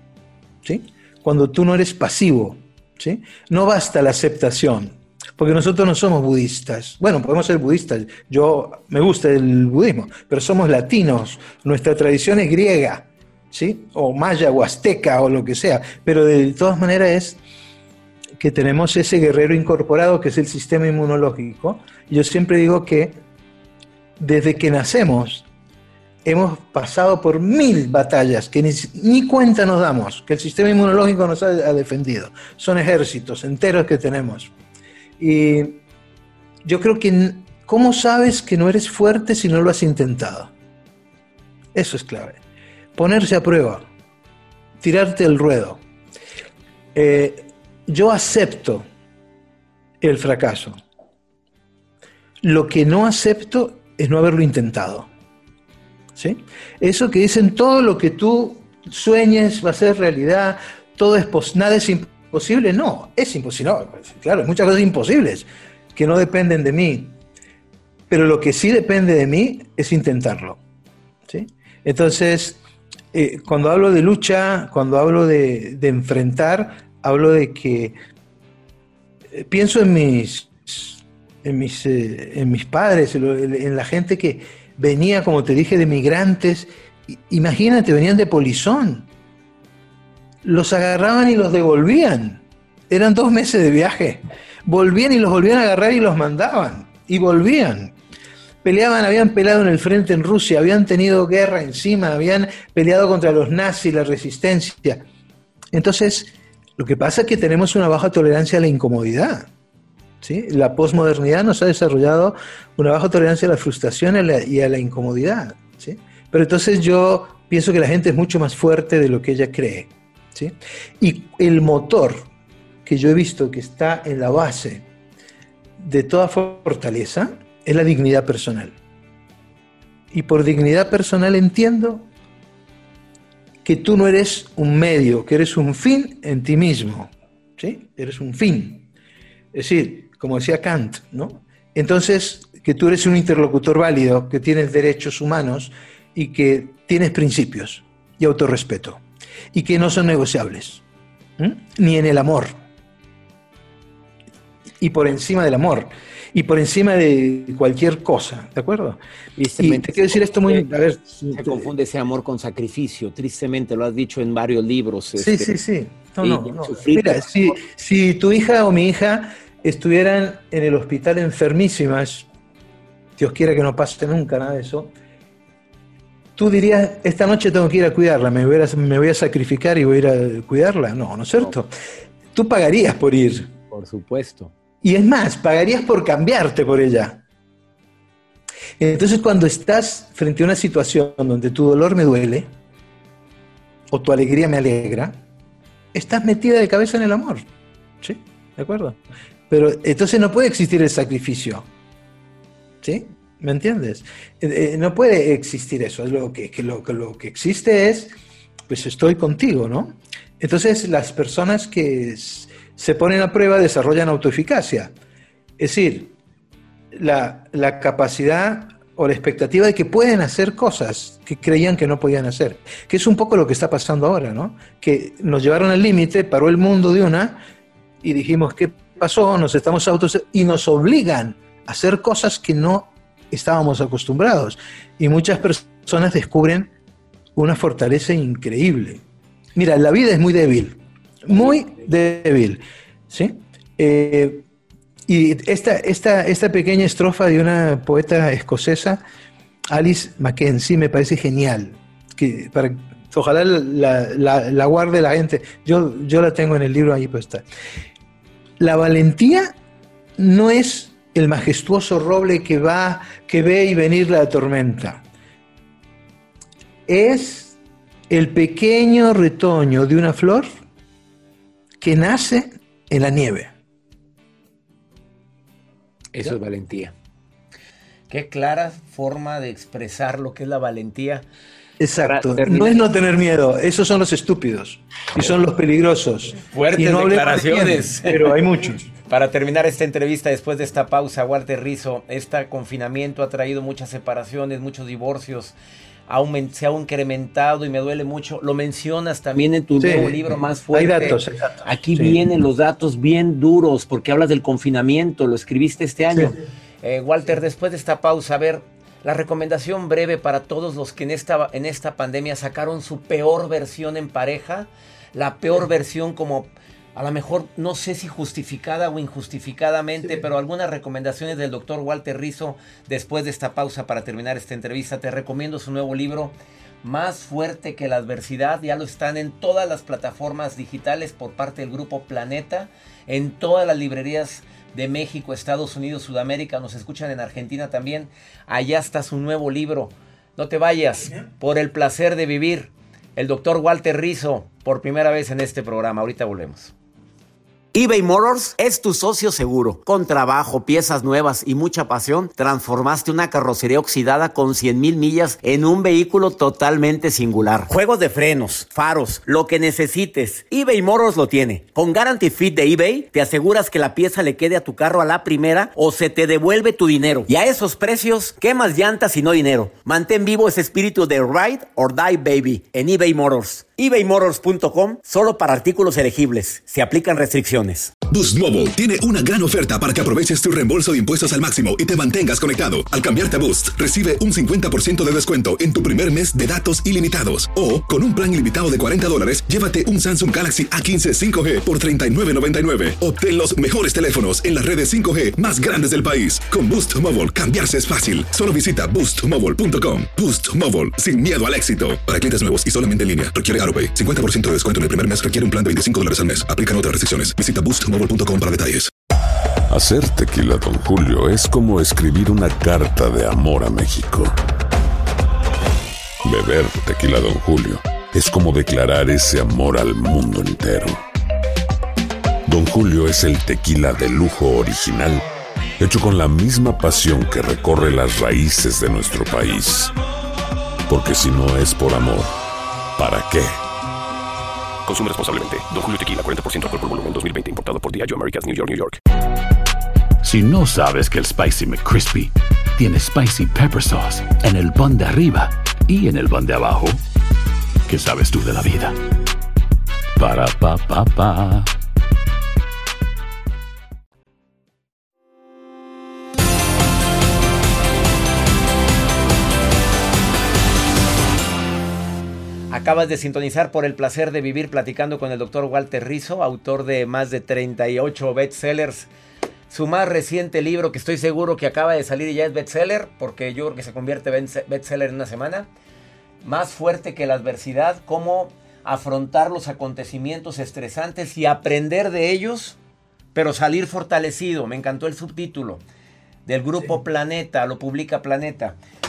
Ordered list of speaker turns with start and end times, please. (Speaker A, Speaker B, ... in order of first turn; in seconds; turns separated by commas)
Speaker A: 0.6-17.4, Speaker A: 18.4-23.2, Speaker A: 24.2-25.4, Speaker A: 26.2-34.5, Speaker A: 35.2-35.8, Speaker A: 36.6-40.5, Speaker A: 41.7-42.4, Speaker A: 43.0-43.9, Speaker A: 44.8-45.8, Speaker A: 46.9-48.9, Speaker A: 50.0-50.8, Speaker A: 52.4-55.1, Speaker A: 56.1-67.2, Speaker A: 68.1-70.6, Speaker A: 71.3-72.6, Speaker A: 73.1-78.0, Speaker A: 79.3-89.1, Speaker A: 90.4-97.9, Speaker A: 98.6-105.0, Speaker A: 105.7-109.5, Speaker A: 110.2-122.3, Speaker A: 122.8-124.9, Speaker A: 125.8-128.8, Speaker A: 130.1-132.1, Speaker A: 133.6-138.9, Speaker A: 139.5-149.0, Speaker A: 149.5-150.8, Speaker A: 151.4-152.6, Speaker A: 154.8-159.0, Speaker B: 159.4-160.7, Speaker A: 159.6-161.7, Speaker B: 161.3-165.6, Speaker A: 165.2-172.3, Speaker B: 166.2-167.6, Speaker A: 173.2-174.9, Speaker A: 176.3-181.7, Speaker A: 182.3-183.5, Speaker B: 183.7-184.5, Speaker A: 184.8-187.2, Speaker A: 188.8-192.5, Speaker A: 193.9-195.2, Speaker A: 195.9-197.4, Speaker A: 198.0-199.0, Speaker A: 199.5-201.7, Speaker A: 202.8-208.2, Speaker A: 208.7-214.9, Speaker A: 215.6-216.2, Speaker A: 216.9-227.4, Speaker A: 228.0-236.7, Speaker A: 237.3-239.0, Speaker A: 239.5-244.4, Speaker A: 245.1-249.0, Speaker A: 249.7-257.4, Speaker A: 258.6-259.6, Speaker A: 260.2-265.0, Speaker A: 266.9-267.6, Speaker A: 268.1-270.5, Speaker A: 271.8-273.5, Speaker B: 276.1-276.9, Speaker B: 278.1-281.2, Speaker A: 281.8-288.8, Speaker B: 282.1-282.9, Speaker B: 286.5-288.4, Speaker B: 289.1-295.5, Speaker B: 296.1-346.7, Speaker A: 299.8-300.2, Speaker A: 300.7-302.2, Speaker A: 306.1-306.3, Speaker B: 347.7-377.9, Speaker C: 378.1-408.9, Speaker D: 409.7-414.4, Speaker D: 416.2-421.0, Speaker D: 422.4-425.2, Speaker D: 425.8-429.9, Speaker D: 430.9-432.3, Speaker D: 433.0-433.6, Speaker E: 434.9-439.0, Speaker F: 440.2-447.0, Speaker F: 447.9-449.0, Speaker F: 450.2-451.7, Speaker B: 462.7-469.1, Speaker B: 469.7-475.7, Speaker B: 476.4-482.8, Speaker B: 483.3-485.8, Speaker B: 486.4-488.8